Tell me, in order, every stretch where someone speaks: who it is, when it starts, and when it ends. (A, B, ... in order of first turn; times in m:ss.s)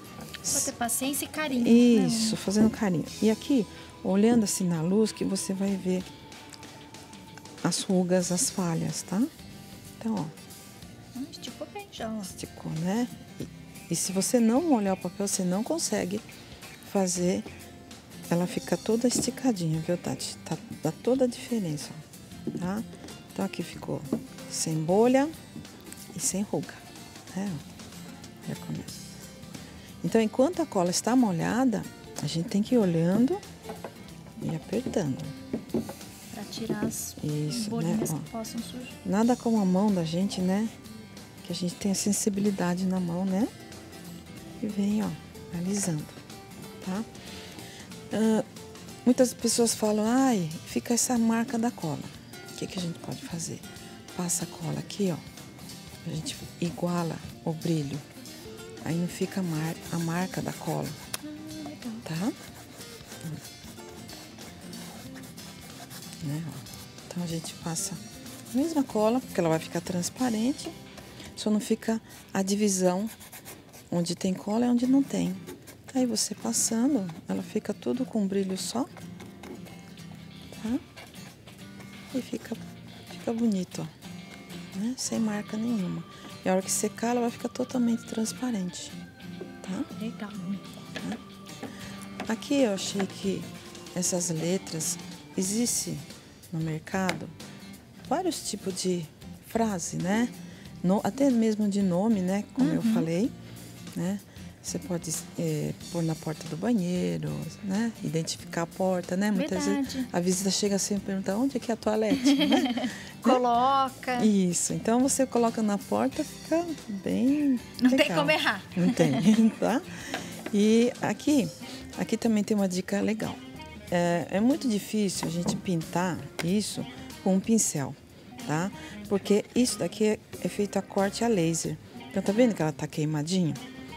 0:00.4-0:00.7 A
0:00.5-0:02.4 B
0:01.5-0:06.1 A
0:07.6-0:09.3 A
0:10.0-0:10.3 A
0:11.1-0:12.3 B
0:12.3-0:16.2 A
0:16.8-0:17.4 A
0:18.3-0:22.0 A
0:22.5-0:25.3 A
0:26.1-0:27.6 A
0:28.4-0:28.9 A
0:30.0-0:33.4 A
0:34.4-0:35.4 A
0:36.3-0:39.0 B
0:37.2-0:38.3 A
0:39.0-0:40.7 A
0:41.4-0:43.5 A
0:44.6-0:46.2 A
0:46.8-0:47.1 A
0:48.1-0:48.4 A
0:49.0-0:55.2 A
0:56.0-0:58.0 A
0:58.8-1:01.0 A
1:01.2-1:02.0 B
1:02.0-1:02.4 A
1:06.2-1:08.0 A
1:08.5-1:10.7 A
1:11.4-1:13.1 A
1:13.9-1:18.9 A
1:20.5-1:20.8 A
1:22.1-1:23.9 A
1:24.7-1:29.0 A
1:29.6-1:29.9 A
1:30.0-1:30.6 B
1:32.3-1:37.3 A
1:38.1-1:43.3 A
1:42.6-1:43.1 B
1:43.9-1:53.4 A
1:49.3-1:50.1 B
1:52.2-1:54.3 B
1:54.2-2:13.6 A
1:57.8-1:59.3 B